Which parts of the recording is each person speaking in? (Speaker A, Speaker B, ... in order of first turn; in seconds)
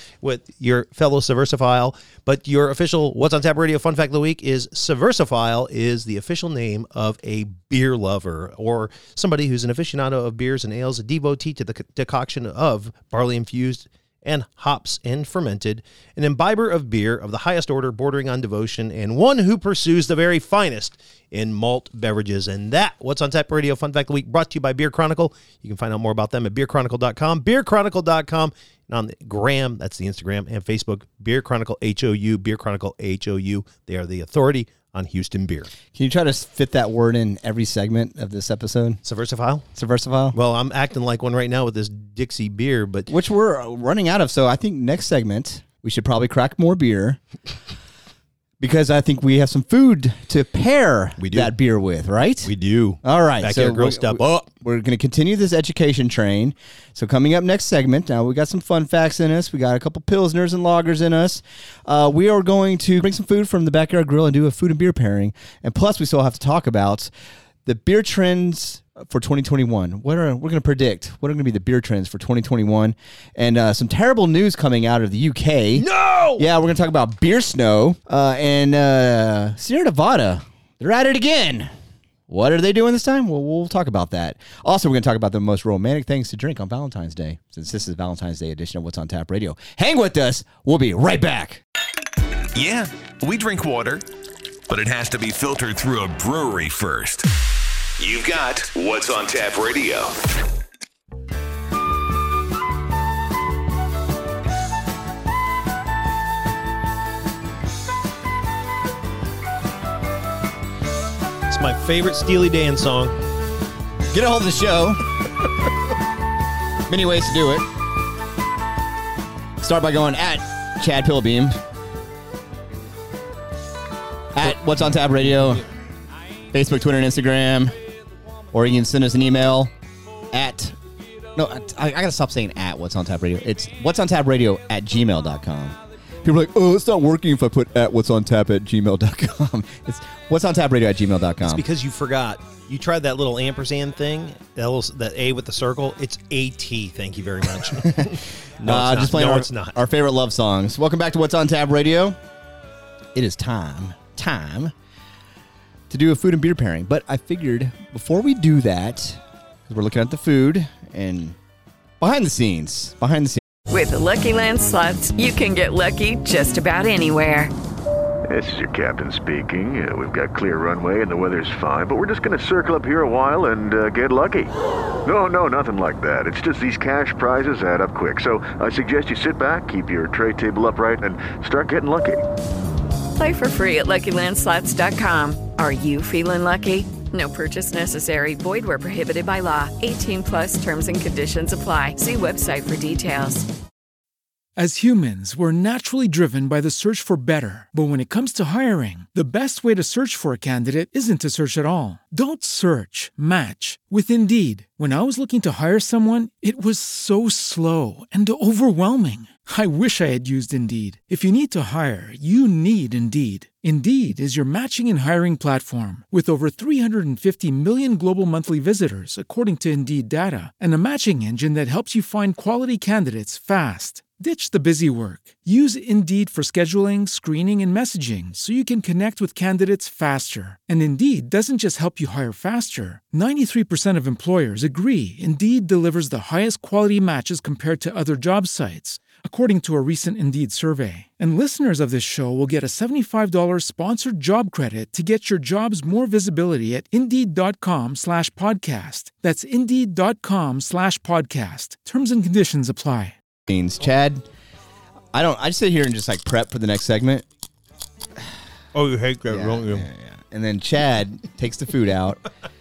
Speaker A: 0.2-35.7, 39.0-39.7, 40.3-43.1, 51.2-51.5, 52.4-54.5, 75.8-76.5, 111.5-113.2, 141.4-149.8, 258.7-259.9
Speaker B: 35.9-39.0, 39.8-40.4, 43.1-47.2, 48.6-52.5, 53.0-67.1, 67.7-75.9, 76.4-81.7, 82.3-91.6, 114.1-115.5, 116.9-117.7, 119.6-121.6, 124.3-125.6, 126.5-127.8, 128.5-129.7, 130.3-130.8, 131.3-141.6, 147.8-152.2, 153.2-154.7, 155.9-161.4, 162.0-163.4, 253.5-254.2, 255.1-257.2, 259.3-262.2
Speaker C: 92.5-94.0, 94.7-97.3, 98.0-100.2
Speaker D: 163.7-167.5, 183.2-193.5
Speaker E: 168.3-174.5, 175.1-182.2
Speaker F: 194.6-253.2